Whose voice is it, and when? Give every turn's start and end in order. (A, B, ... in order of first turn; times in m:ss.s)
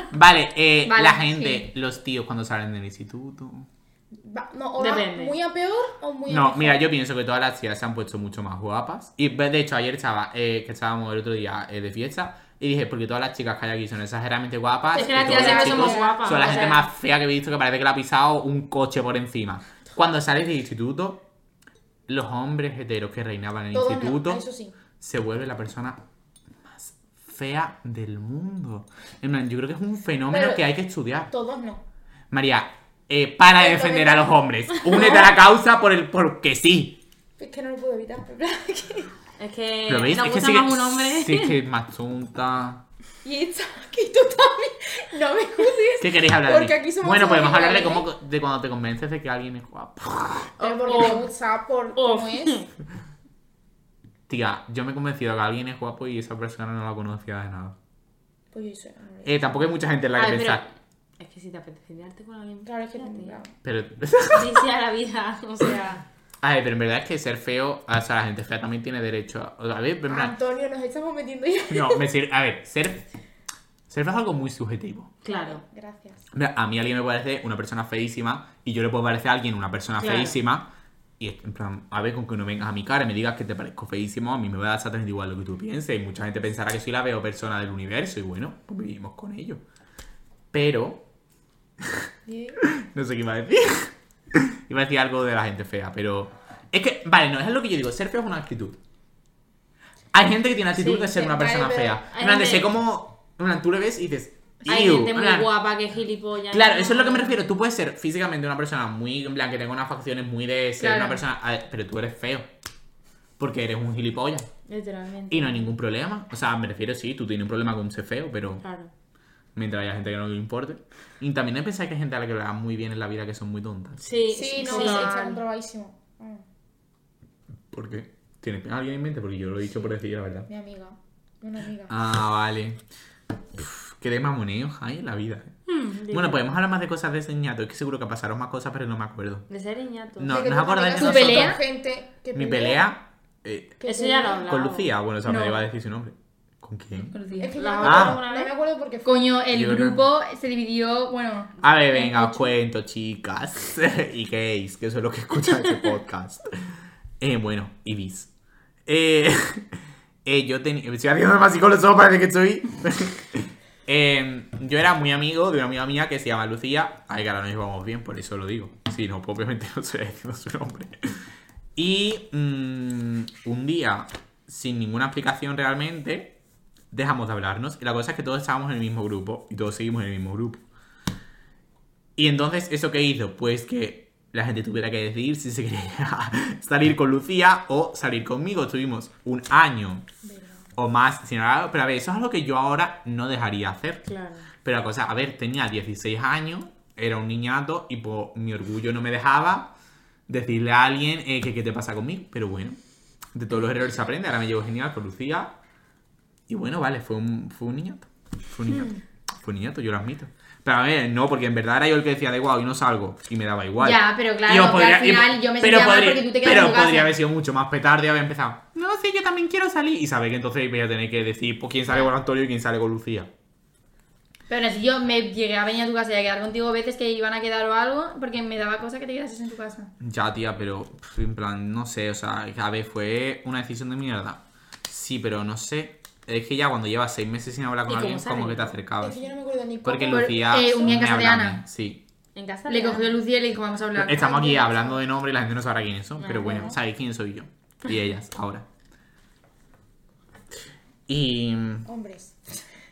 0:00.1-0:03.7 A
0:00.9-0:01.7 B
0:04.1-0:06.8 C
0:04.8-0:05.3 D
0:06.3-0:21.2 A
0:14.9-0:16.8 C
0:14.9-0:16.9 D
0:22.1-0:24.4 A
0:23.7-0:24.8 C
0:25.0-0:26.0 A
0:26.6-0:31.3 A
0:30.3-0:30.6 C
0:31.3-0:31.8 C
0:32.3-0:37.0 A
0:33.6-0:34.4 C
0:34.9-0:35.3 C
0:37.4-0:39.1 C
0:39.4-0:41.6 D
0:39.9-0:42.8 A
0:43.2-0:48.1 C
0:46.0-0:50.5 A
0:50.6-0:51.3 D
0:50.6-0:52.6 C
0:52.0-0:52.7 D
0:54.3-0:57.8 A
0:58.5-0:59.6 C
0:59.2-1:00.6 A
1:00.2-1:00.7 D
1:01.2-1:03.4 D
1:02.6-1:03.5 C
1:03.6-1:04.6 A
1:04.3-1:06.0 D
1:06.4-1:10.4 A
1:10.1-1:12.0 C
1:11.7-1:13.0 A
1:13.9-1:15.1 A
1:15.2-1:15.6 D
1:15.3-1:16.2 C
1:16.3-1:29.6 A
1:20.0-1:20.4 D
1:30.5-1:31.0 A
1:31.8-1:32.1 A
1:32.3-1:32.6 C
1:32.6-1:38.8 A
1:40.1-1:45.5 A
1:40.8-1:41.1 D
1:41.1-1:42.0 C
1:42.1-1:42.7 D
1:44.7-1:47.4 D
1:46.5-1:52.5 A
1:50.8-1:51.2 B
1:53.4-1:54.5 A
1:54.7-1:55.7 D
1:55.3-1:58.6 A
1:58.6-1:58.9 D
1:59.6-2:04.0 A
2:04.0-2:05.4 D
2:04.3-2:06.4 C
2:04.6-2:05.3 B
2:07.7-2:10.5 A
2:10.5-2:11.9 C
2:11.9-2:12.8 A
2:13.6-2:15.6 A
2:15.7-2:16.4 D
2:16.1-2:19.5 A
2:19.5-2:20.4 D
2:20.2-2:21.6 A
2:20.3-2:22.8 C
2:21.0-2:21.6 B
2:22.3-2:23.8 A
2:23.8-2:24.6 C
2:23.8-2:24.9 D
2:24.5-2:27.2 A
2:25.2-2:25.7 B
2:27.0-2:27.6 B
2:27.4-2:29.3 C
2:27.6-2:28.5 D
2:27.8-2:28.2 A
2:29.0-2:32.5 B
2:29.5-2:30.0 A
2:31.6-2:36.4 A
2:37.2-2:38.3 A
2:38.9-2:51.0 A
2:51.8-2:56.4 A
2:56.9-3:00.6 A
3:02.2-3:10.1 A
3:10.2-3:10.6 C
3:10.8-3:14.0 A
3:14.1-3:14.5 D
3:14.6-3:19.7 A
3:20.3-3:22.8 A
3:23.3-3:25.6 A
3:26.5-3:43.3 A
3:33.8-3:37.2 B
3:44.5-3:49.9 B
3:50.0-3:59.2 A
3:57.9-3:58.8 D
3:59.0-4:01.1 C
3:59.8-4:02.0 A
4:00.1-4:01.6 B
4:02.4-4:03.2 D
4:02.7-4:05.0 B
4:04.0-4:08.6 A
4:06.2-4:06.8 D
4:06.4-4:06.8 C
4:11.1-4:11.9 A
4:11.8-4:12.6 C